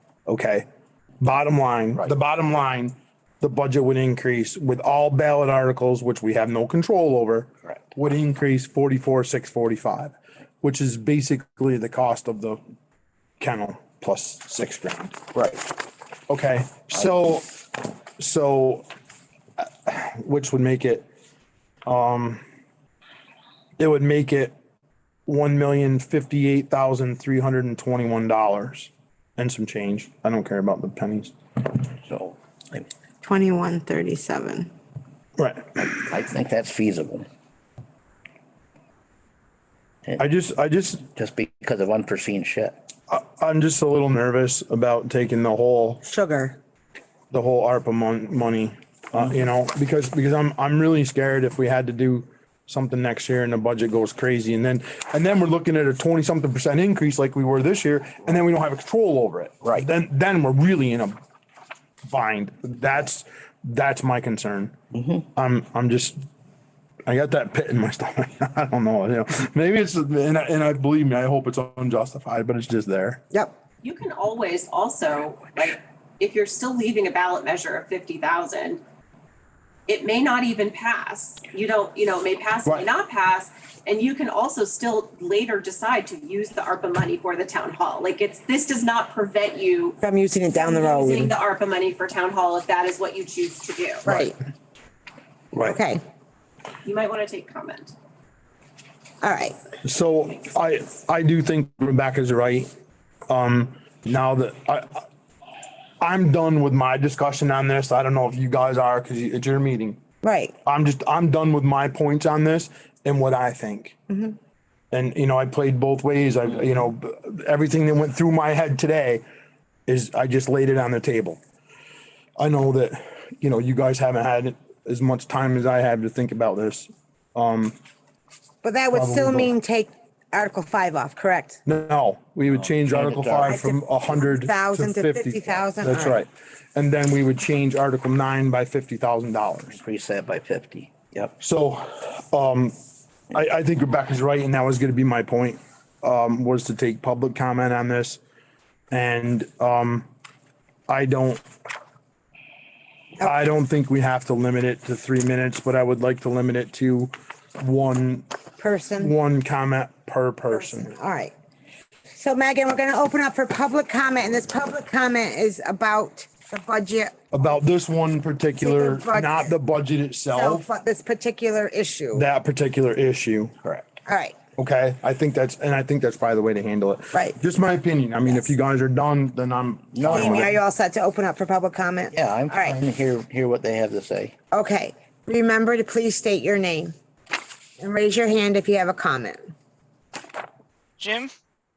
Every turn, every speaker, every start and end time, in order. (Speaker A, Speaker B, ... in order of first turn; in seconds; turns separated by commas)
Speaker A: 0.3-0.7, Speaker A: 1.2-12.6, Speaker A: 13.4-15.3, Speaker A: 16.3-17.6, Speaker A: 18.2-18.9, Speaker A: 19.6-21.1, Speaker A: 21.9-22.4, Speaker A: 23.8-24.5, Speaker A: 25.2-31.3, Speaker B: 32.0-32.9, Speaker C: 33.2-34.7, Speaker A: 35.4-36.0, Speaker B: 35.9-37.2, Speaker A: 40.2-41.0, Speaker B: 41.1-42.7, Speaker A: 43.1-46.0, Speaker C: 46.0-46.6, Speaker A: 47.3-61.2, Speaker A: 62.1-64.7, Speaker B: 64.9-65.2, Speaker A: 65.3-66.2, Speaker A: 67.1-73.2, Speaker D: 73.8-78.8, Speaker D: 79.9-90.0, Speaker C: 90.0-91.3, Speaker D: 90.5-94.1, Speaker A: 94.0-94.3, Speaker C: 94.0-94.3, Speaker C: 95.6-96.0, Speaker D: 96.8-97.9, Speaker C: 99.2-99.6, Speaker A: 99.8-102.7, Speaker A: 103.3-105.0, Speaker A: 106.0-110.0, Speaker C: 110.2-110.5, Speaker A: 110.6-114.0, Speaker C: 114.1-114.3, Speaker A: 114.9-119.2, Speaker A: 119.9-121.4, Speaker A: 122.4-127.8, Speaker C: 128.6-131.6, Speaker A: 128.9-129.5, Speaker A: 131.7-139.8, Speaker B: 132.5-133.6, Speaker C: 133.5-136.2, Speaker B: 139.7-141.3, Speaker A: 141.4-142.7, Speaker A: 143.3-148.2, Speaker A: 148.9-150.1, Speaker A: 150.9-151.4, Speaker A: 153.2-158.3, Speaker C: 158.6-159.1, Speaker A: 159.0-161.0, Speaker C: 160.5-161.3, Speaker C: 162.1-167.4, Speaker A: 167.3-170.7, Speaker C: 168.6-169.5, Speaker C: 170.3-172.2, Speaker A: 172.1-173.6, Speaker C: 174.1-174.4, Speaker A: 174.6-180.5, Speaker B: 179.9-180.5, Speaker C: 180.1-182.8, Speaker B: 182.1-184.3, Speaker C: 184.5-186.9, Speaker C: 187.8-189.5